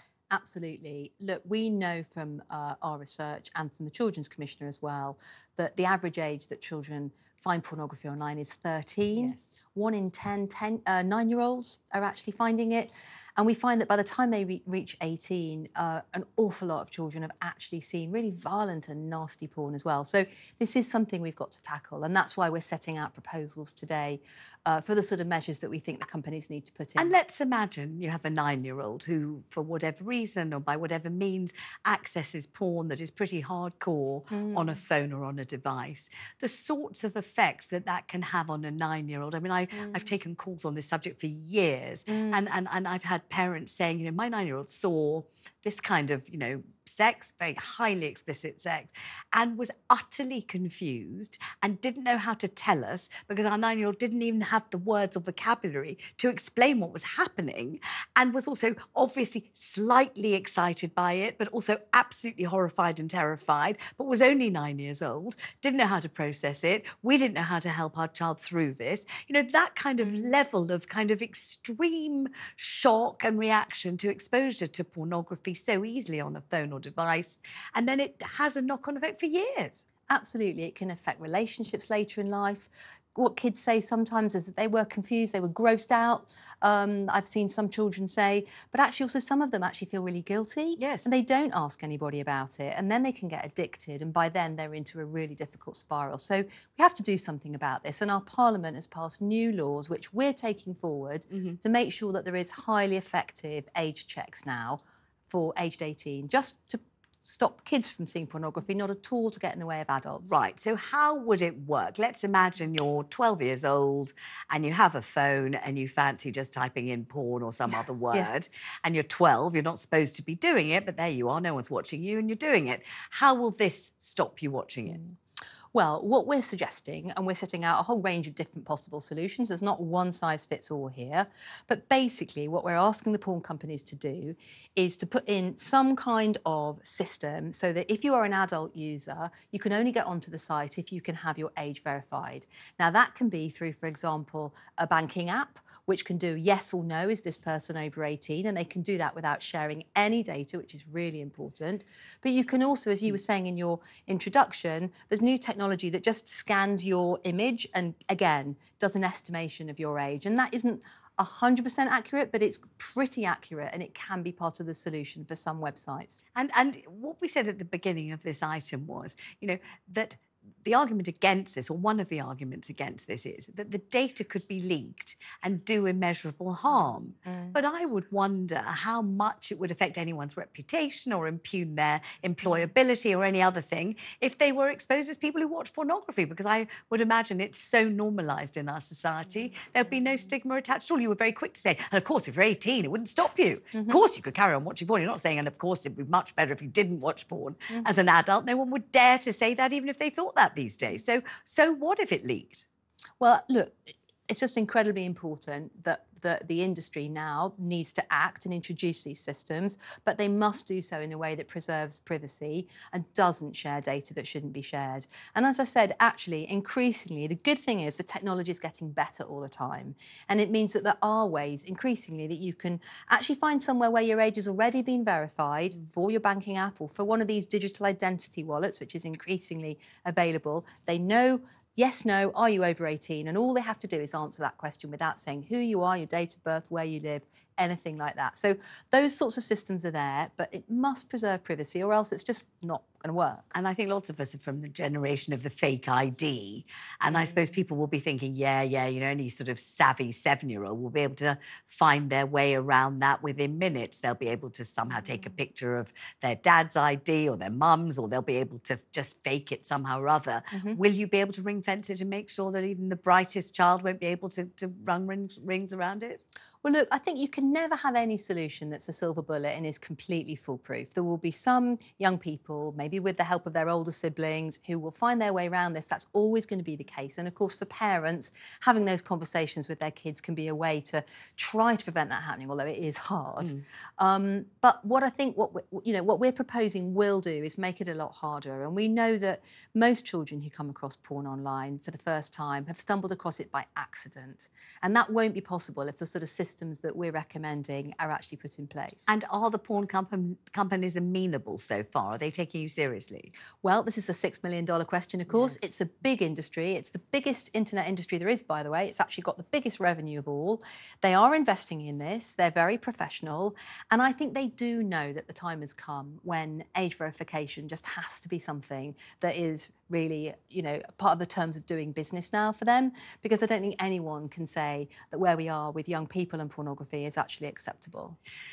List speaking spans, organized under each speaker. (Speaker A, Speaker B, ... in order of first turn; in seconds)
Speaker A: 0.3-27.1, 34.3-34.8, 39.7-40.1, 42.1-42.4, 70.0-70.3, 80.1-110.4, 125.7-166.2, 176.8-177.6, 193.7-194.0, 203.2-243.5, 247.1-247.4, 260.5-260.8, 266.6-299.1, 303.6-328.2
Speaker B: 9.2-9.6, 27.0-79.9, 90.8-91.1, 101.3-101.6, 110.2-125.0, 166.4-202.7, 243.5-266.2, 299.1-303.3, 305.3-305.6